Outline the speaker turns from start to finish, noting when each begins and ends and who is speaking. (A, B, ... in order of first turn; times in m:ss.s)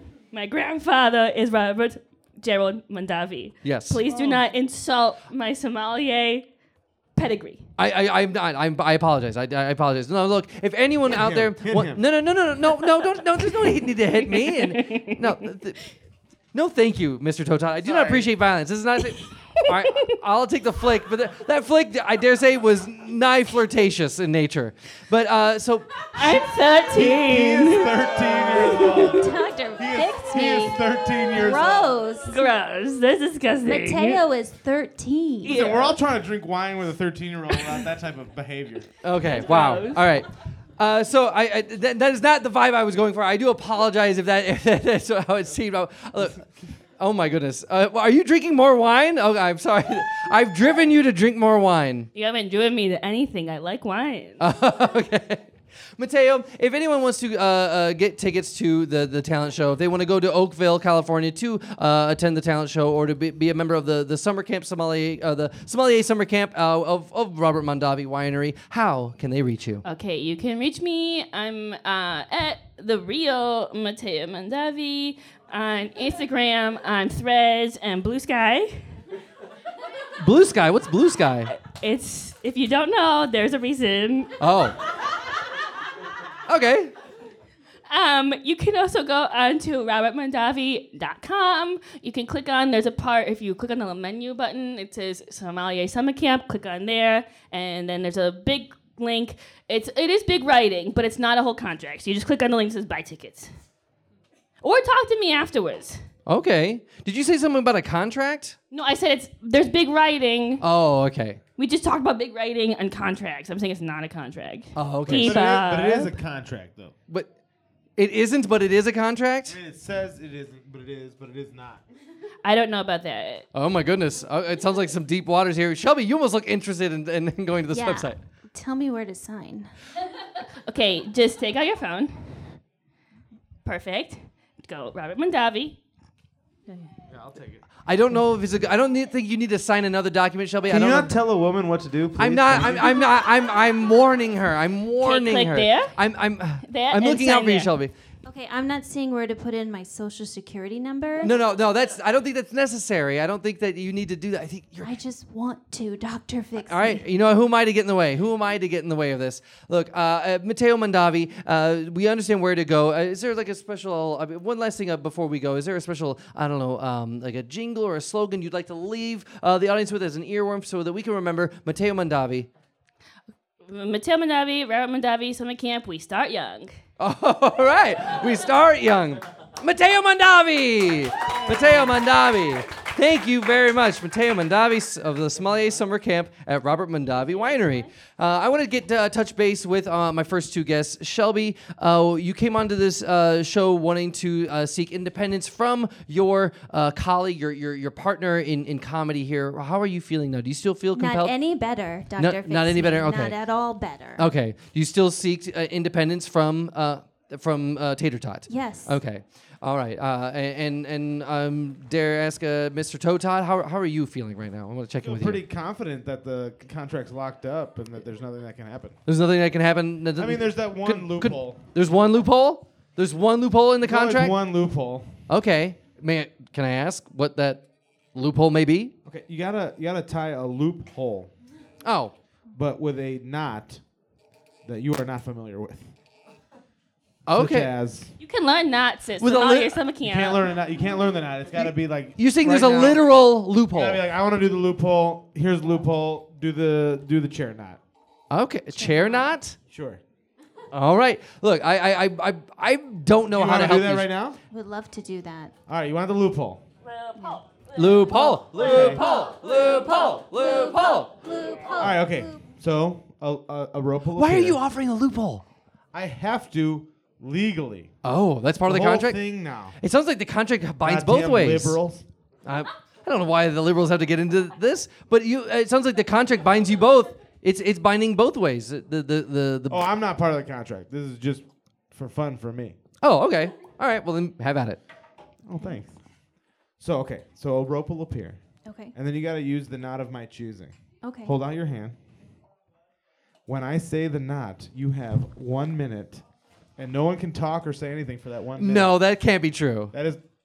0:00.3-0:06.4 A
0:03.6-0:04.0 B
0:04.1-0:04.4 C
0:07.1-0:07.6 A
0:07.8-0:15.8 B
0:11.0-0:12.0 C
0:14.2-0:15.3 A
0:16.5-0:25.9 B
0:17.8-0:18.3 C
0:26.1-0:29.2 A
0:26.8-0:32.0 C
0:28.9-0:32.4 D
0:32.3-0:34.2 A
0:33.6-0:35.6 D
0:35.4-0:36.0 A
0:35.4-0:38.9 C
0:39.0-0:46.4 B
0:39.2-0:40.0 A
0:47.0-0:52.1 B
0:52.1-0:54.4 A
0:54.4-1:09.8 B
1:09.8-1:18.8 A
1:20.2-1:21.5 B
1:21.6-1:24.3 A
1:24.4-1:24.8 B
1:26.5-1:26.9 B
1:27.9-1:43.5 A
1:44.6-1:46.0 A
1:46.2-1:48.6 B
1:48.7-1:50.6 A
1:50.6-1:51.4 B
1:51.6-1:56.1 A
1:54.7-1:55.4 B
1:55.1-1:56.9 C
1:58.0-1:59.6 B
1:59.5-2:01.8 C
2:02.4-2:03.5 A
2:03.5-2:08.2 B
2:07.7-2:09.7 D
2:10.6-2:12.4 A
2:13.6-2:15.8 A
2:17.1-2:17.6 C
2:17.8-2:21.2 B
2:20.7-2:23.0 C
2:22.2-2:27.9 B
2:25.0-2:25.9 A
2:26.7-2:27.7 A
2:28.2-2:31.3 D
2:31.2-2:34.9 B
2:34.8-2:37.0 D
2:36.6-2:52.5 B
2:53.6-2:56.7 A
2:57.0-3:21.3 B
3:01.4-3:01.8 C
3:20.9-3:24.3 D
3:22.2-3:23.4 B
3:24.2-3:35.4 B
3:28.5-3:28.9 D
3:35.0-3:39.0 C
3:39.1-3:44.3 B
3:40.2-3:41.6 C
3:43.8-3:45.2 C
3:45.3-3:48.9 B
3:49.0-3:51.3 C
3:51.8-3:52.1 B
3:52.5-3:53.8 C
3:54.6-3:55.9 C
3:57.2-3:57.7 B
3:57.3-3:58.1 C
3:58.2-4:00.5 A
3:59.2-3:59.8 B
4:00.0-4:03.0 C
4:01.6-4:04.0 B
4:03.7-4:07.8 C
4:08.3-4:09.6 B
4:09.7-4:10.0 C
4:10.7-4:14.1 B
4:13.3-4:14.4 C
4:14.5-4:15.5 D
4:15.7-4:16.6 C
4:16.8-4:18.5 A
4:17.7-4:21.1 B
4:18.6-4:19.0 C
4:18.6-4:22.4 D
4:21.8-4:24.6 C
4:24.2-4:25.4 B
4:25.9-4:27.9 C
4:28.0-4:29.2 B
4:28.6-4:29.8 C
4:29.8-4:31.8 B
4:30.8-4:32.0 C
4:32.4-4:39.9 B
4:39.7-4:42.8 C
4:43.0-4:44.8 B
4:45.4-4:46.0 C
4:46.8-4:48.4 C
4:48.6-4:48.9 D
4:48.9-4:52.0 C
4:51.0-4:51.3 D
4:53.5-4:56.2 C
4:56.8-4:58.9 C
4:58.6-4:59.9 B
4:59.9-5:00.2 C